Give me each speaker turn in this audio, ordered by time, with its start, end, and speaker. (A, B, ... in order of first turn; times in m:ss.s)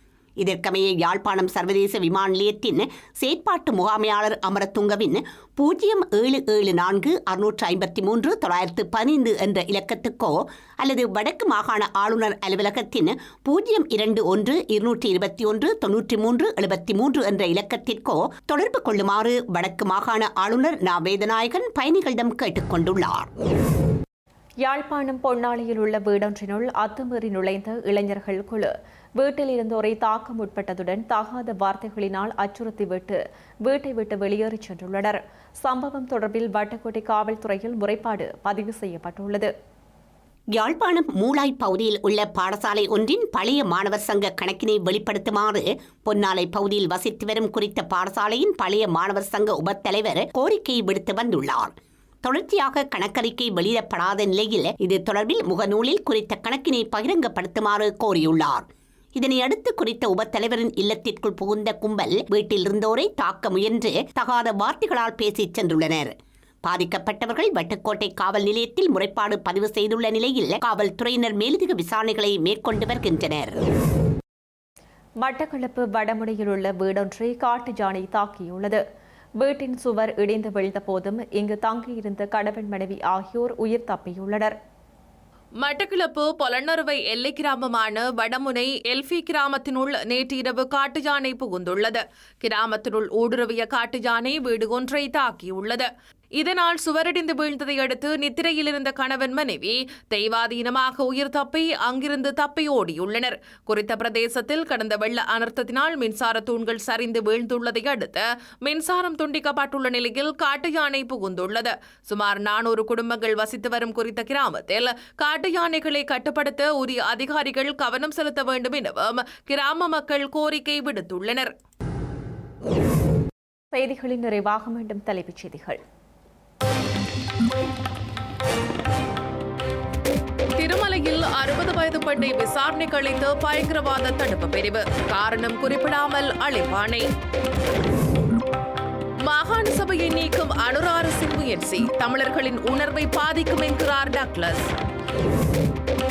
0:00.4-0:23.3 A
0:24.6-0:39.5 B
0:40.5-0:51.7 A
0:52.2-0:58.6 A
0:59.2-1:06.1 A
1:06.6-1:13.6 A
1:15.2-1:18.8 B
1:19.4-1:24.5 B
1:25.6-2:01.5 C
2:03.7-2:05.8 B
2:10.6-2:17.1 C
2:19.2-2:24.7 C